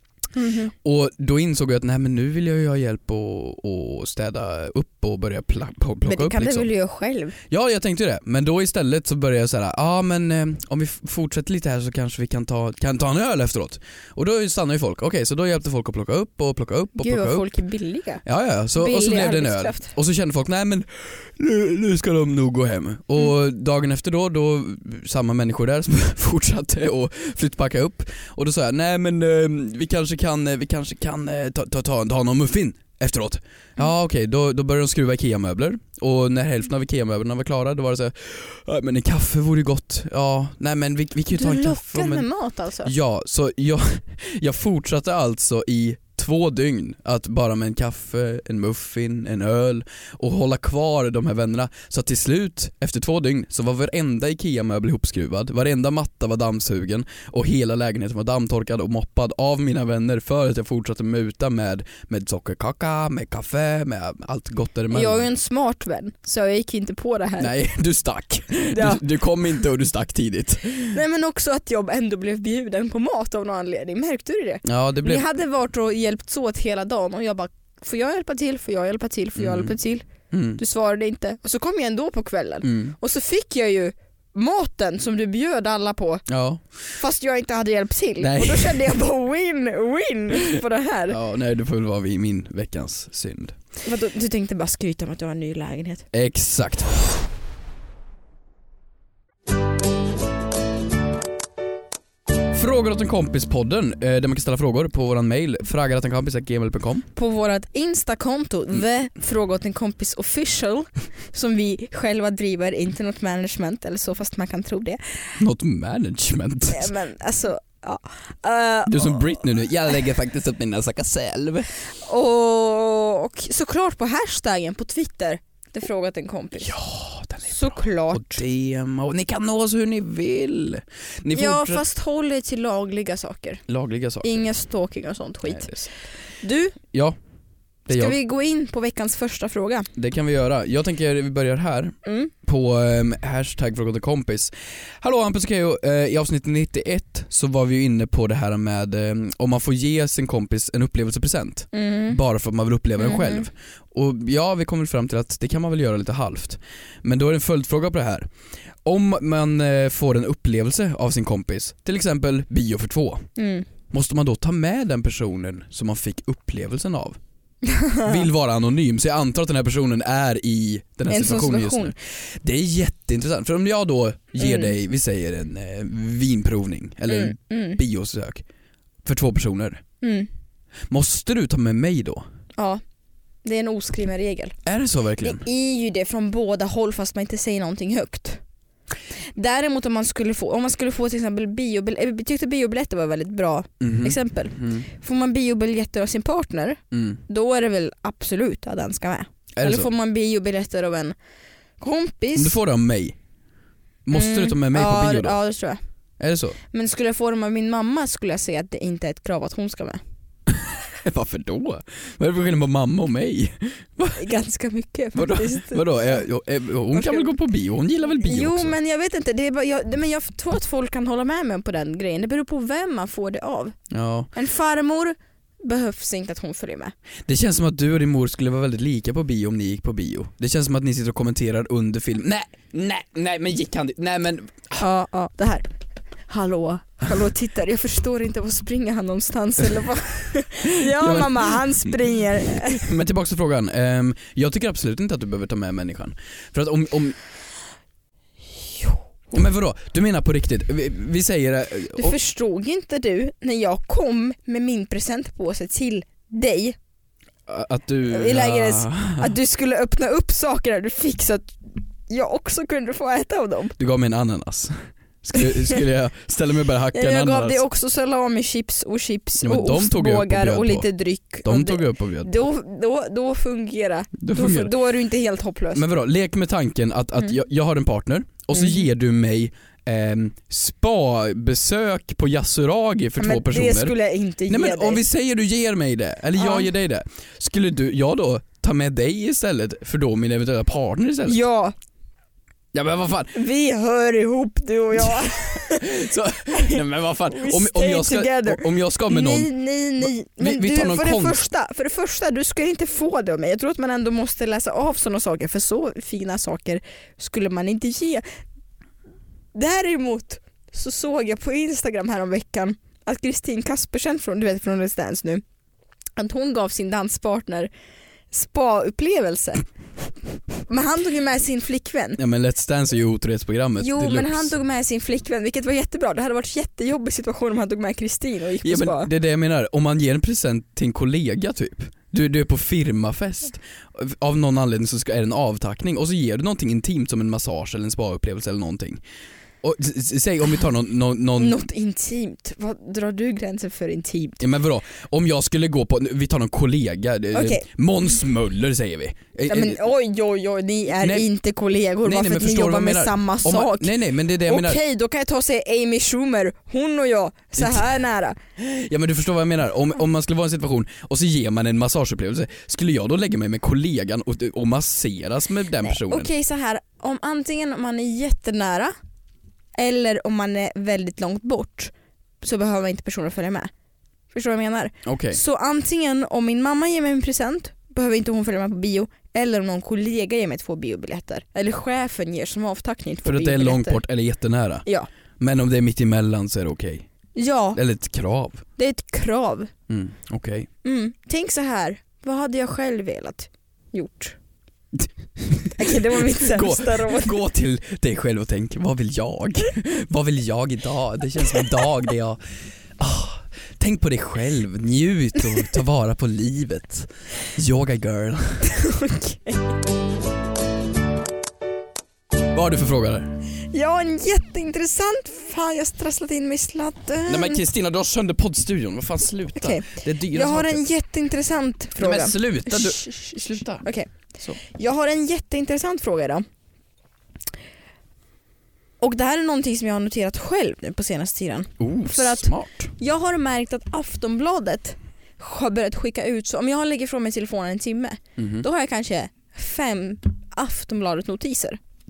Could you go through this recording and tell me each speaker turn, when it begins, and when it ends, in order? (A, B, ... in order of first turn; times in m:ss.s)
0:00.4-0:00.7 A
0:00.8-0:06.7 B
0:06.0-0:07.4 A
0:07.5-0:17.4 B
0:17.0-0:18.2 A
0:18.2-0:42.3 B
0:18.8-0:19.9 A
0:41.3-0:42.9 A
0:42.8-1:05.3 B
1:04.9-1:07.6 A
1:07.4-1:11.0 B
1:08.7-1:09.0 A
1:10.9-1:20.1 A
1:14.6-1:15.2 B
1:19.4-1:19.7 B
1:20.3-1:20.6 B
1:20.6-1:26.3 A
1:22.6-1:23.0 B
1:26.3-1:26.7 B
1:26.9-1:31.2 A
1:28.2-1:29.0 B
1:31.1-1:33.6 B
1:33.8-1:36.0 A
1:36.1-1:36.9 B
1:42.5-1:47.1 B
1:47.2-1:55.4 A
1:55.4-1:56.9 B
1:56.7-1:59.4 A
1:58.9-2:01.7 B
2:02.0-2:06.7 A
2:06.6-2:11.8 B
2:07.5-2:08.4 A
2:11.3-2:13.6 A
2:13.7-2:14.4 B
2:14.2-2:15.7 A
2:15.4-2:15.9 B
2:16.4-2:16.8 A
2:17.9-2:18.2 B
2:17.9-2:19.9 A
2:20.0-2:38.3 B
2:22.0-2:22.3 A
2:31.7-2:32.2 A
2:33.0-2:33.5 A
2:38.8-2:43.3 B
2:43.4-2:43.7 A
2:43.9-2:47.2 B
2:47.6-2:48.2 A
2:48.0-2:58.4 B
2:51.1-2:52.0 A
2:54.4-2:54.7 A
2:57.1-2:57.8 A
2:59.0-2:59.8 B
3:00.0-3:00.3 A
3:00.9-3:02.2 B
3:02.6-3:02.8 A
3:03.4-3:04.6 A
3:04.6-3:05.4 B
3:05.2-3:08.4 A
3:09.4-3:21.2 A
3:13.8-3:14.9 B
3:16.9-3:17.2 B
3:19.6-3:19.9 B
3:21.8-3:22.6 A
3:22.4-3:23.2 B
3:24.1-3:25.4 B
3:24.1-3:25.8 A
3:26.2-3:26.6 B
3:26.7-3:30.0 A
3:30.5-3:34.2 B
3:34.2-3:36.2 A
3:35.2-3:38.8 B
3:36.9-3:37.3 A
3:38.2-3:43.8 A
3:43.9-3:44.3 B
3:44.3-3:46.9 A
3:47.3-3:54.8 B
3:54.8-3:55.7 A
3:56.3-4:02.9 A
4:00.7-4:07.2 B
4:08.6-4:09.0 A
4:09.3-4:12.2 B
4:12.0-4:16.8 A
4:17.5-4:19.3 B
4:18.1-4:23.8 A
4:23.8-4:27.6 B
4:25.4-4:25.8 A
4:26.9-4:35.8 A
4:29.4-4:30.9 B
4:31.4-4:32.3 B
4:34.2-4:34.7 B
4:35.7-4:44.0 B
4:38.5-4:38.8 A
4:43.2-4:45.0 A
4:44.5-4:51.4 B
4:46.4-4:46.7 A
4:51.3-4:51.7 A
4:52.7-4:53.4 B
4:53.4-5:08.2 A
4:55.0-5:01.4 B
5:09.6-5:15.4 A
5:16.2-5:17.7 A
5:18.3-5:19.6 A
5:20.7-5:22.2 A
5:22.2-5:24.5 B
5:23.8-5:29.1 A
5:28.6-5:39.0 B
5:39.6-5:41.6 B
5:41.4-5:44.4 A
5:44.4-5:49.8 B
5:47.3-5:47.7 A
5:49.5-5:53.9 A
5:51.0-5:51.3 B
5:52.0-5:54.8 B
5:54.4-5:58.4 A
5:57.6-5:57.9 B
5:58.6-6:06.3 B
6:05.8-6:08.9 A
6:09.8-6:13.7 A
6:14.3-6:24.0 A
6:15.0-6:15.4 B
6:23.2-6:24.9 B
6:25.4-6:27.1 B
6:27.4-6:27.8 A
6:27.8-6:28.6 B
6:28.8-6:29.7 A
6:29.9-6:30.7 B
6:30.8-6:34.4 A
6:35.0-6:42.4 B
6:35.8-6:37.4 A
6:43.0-6:48.7 B
6:48.6-6:49.7 A
6:52.5-6:53.4 B
6:53.7-6:57.6 A
6:57.3-7:00.8 B
6:59.6-7:06.4 A
7:02.0-7:03.9 B
7:09.0-7:21.8 A
7:11.8-7:12.9 B
7:18.4-7:18.6 B